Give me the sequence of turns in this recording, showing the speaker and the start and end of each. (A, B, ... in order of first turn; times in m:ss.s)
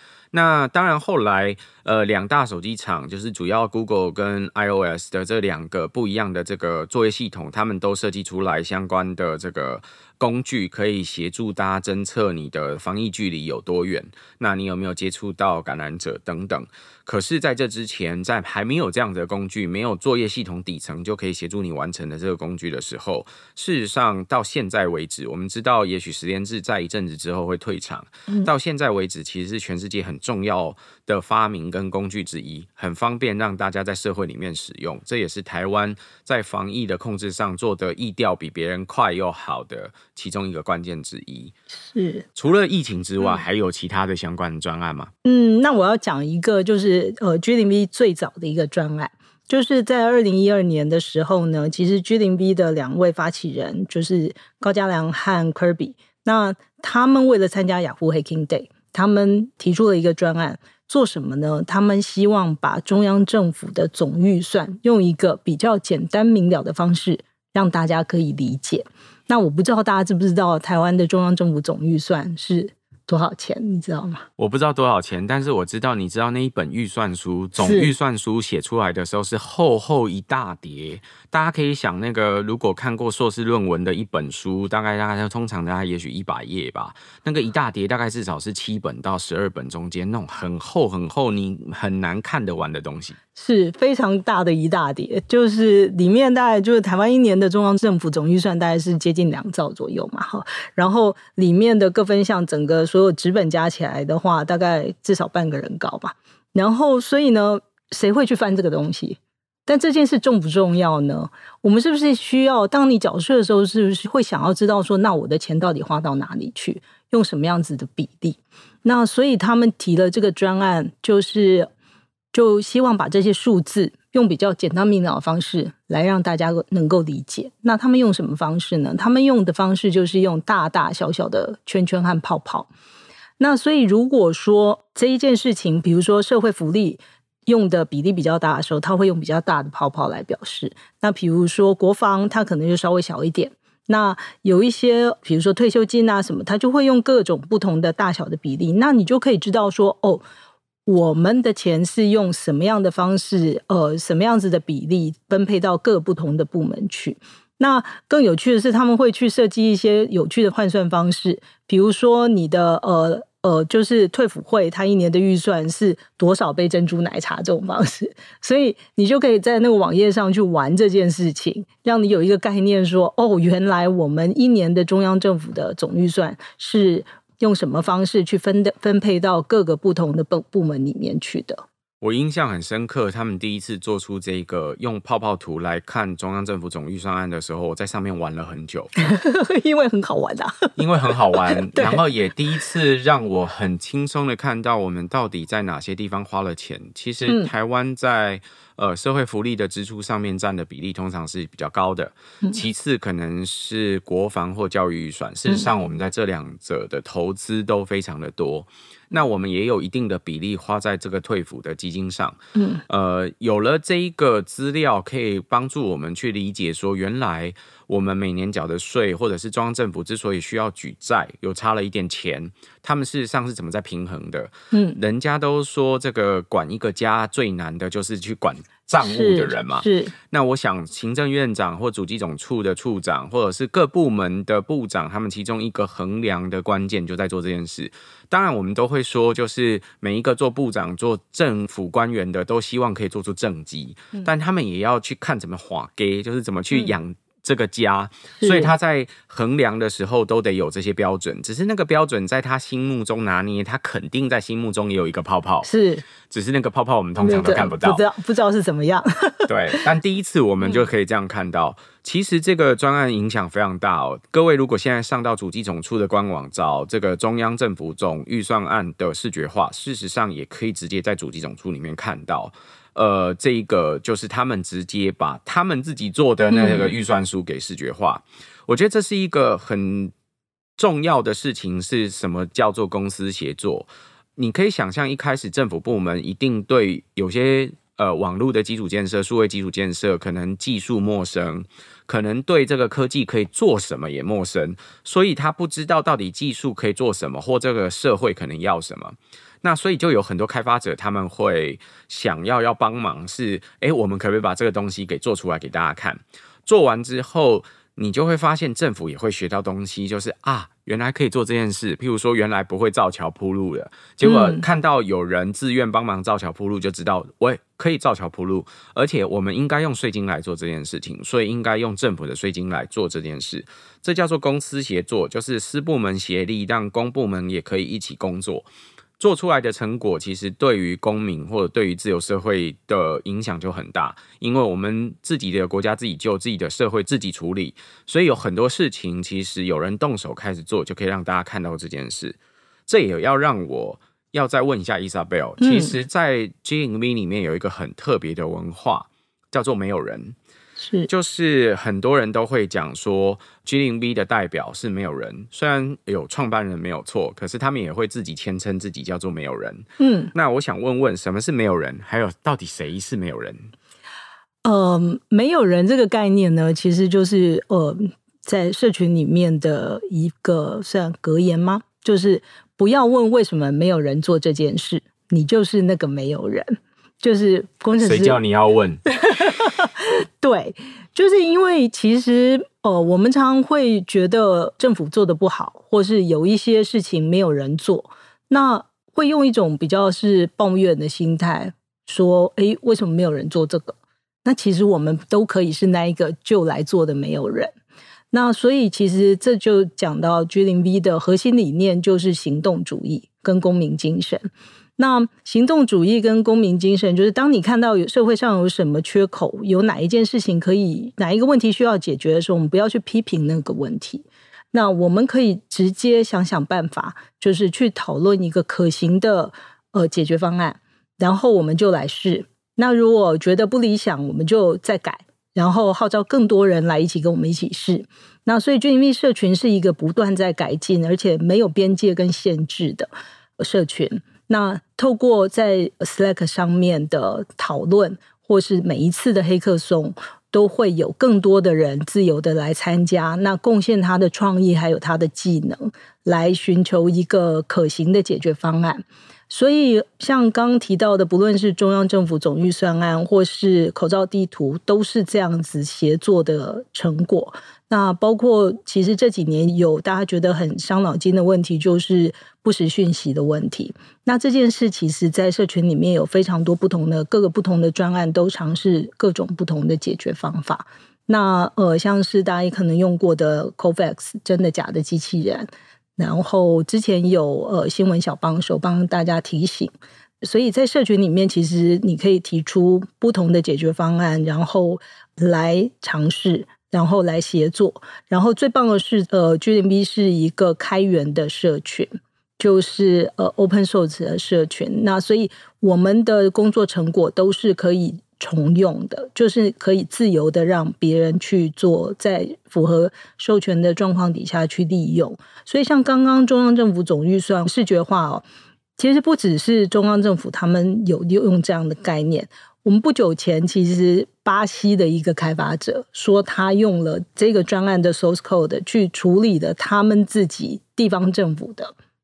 0:00.3-0:41.5 A
0:41.7-0:42.3 B
0:42.4-0:45.1 A
0:45.2-1:14.2 B
1:14.4-1:33.2 A
1:17.6-1:17.9 B
1:33.4-2:01.7 B
2:02.3-2:12.7 B
2:13.4-2:30.2 B
2:30.9-3:01.6 B
3:02.0-3:08.9 A
3:09.0-3:10.8 B
3:10.8-4:15.7 A
3:11.4-3:12.0 B
3:32.6-3:32.8 B
3:44.7-3:45.0 B
3:49.0-3:50.1 B
4:08.4-4:08.7 B
4:15.6-4:16.0 B
4:16.3-4:18.0 A
4:17.2-4:19.8 B
4:19.5-4:40.1 A
4:36.5-4:36.9 B
4:40.8-5:28.7 A
5:14.2-5:14.6 B
5:29.2-5:50.4 A
5:45.6-5:46.0 B
5:50.8-5:51.1 B
5:51.1-6:03.7 A
6:00.0-6:00.3 B
6:04.6-6:18.4 B
6:18.0-6:19.0 A
6:19.1-6:37.7 B
6:38.3-8:28.4 B
8:29.0-8:41.9 B